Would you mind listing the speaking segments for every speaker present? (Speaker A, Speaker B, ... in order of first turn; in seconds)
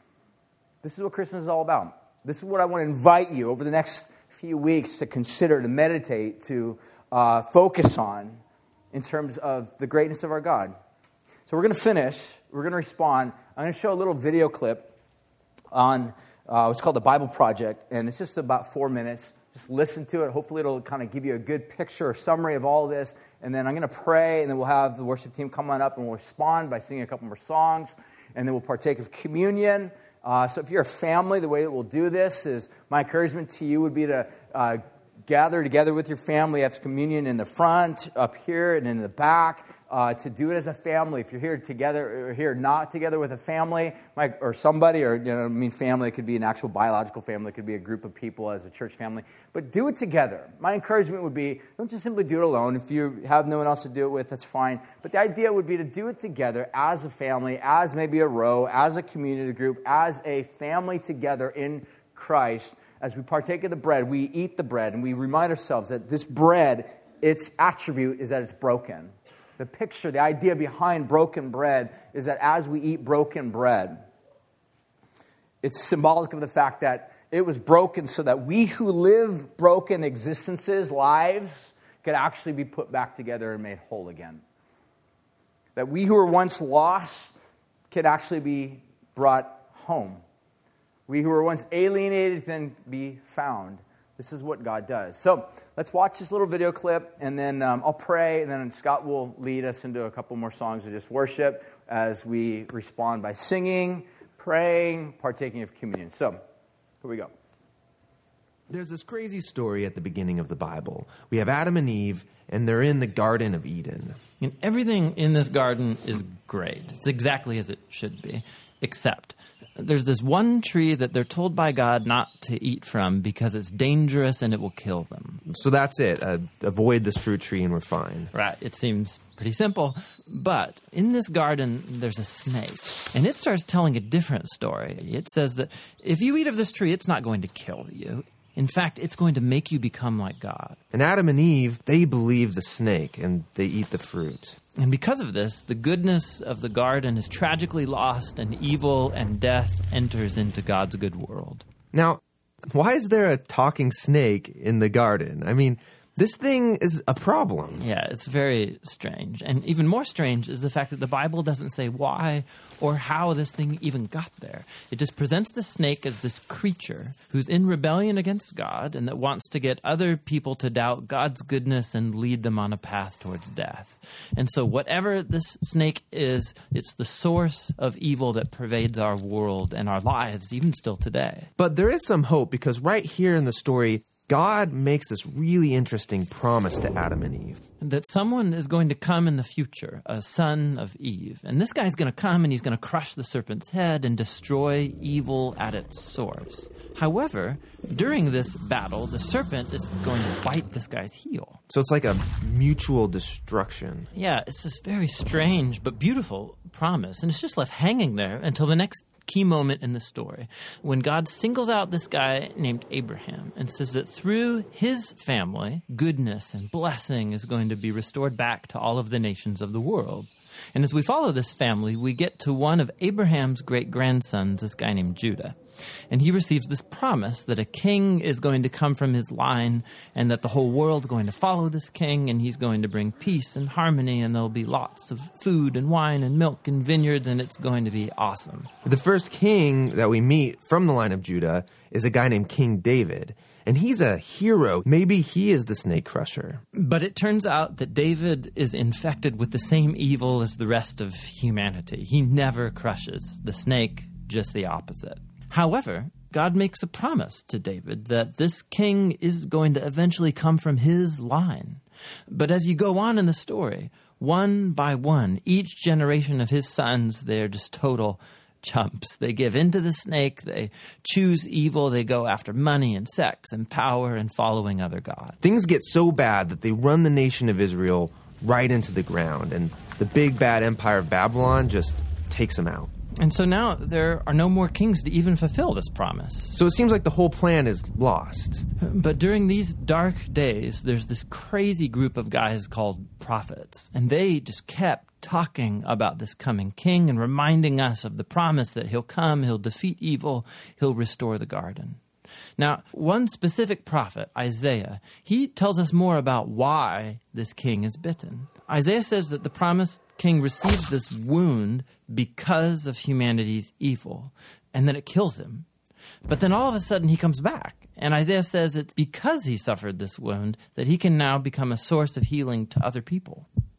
Speaker A: 0.8-8.4, 8.9-10.7, 11.5-14.9, 15.7-74.0, 75.6-84.4, 85.8-87.3, 87.9-90.2, 91.1-106.4, 107.0-107.3
Speaker B: 108.7-114.2, 125.5-128.3, 140.9-144.6, 151.9-157.8, 181.6-187.6, 201.7-204.1, 238.8-246.6, 275.4-282.9, 286.5-288.6
Speaker C: 114.4-125.4, 128.3-140.8, 144.8-151.6, 157.8-181.5, 187.8-201.6, 204.1-225.6, 226.1-238.7, 246.7-275.4, 283.2-286.5, 288.8-302.0, 302.6-315.6, 316.2-323.5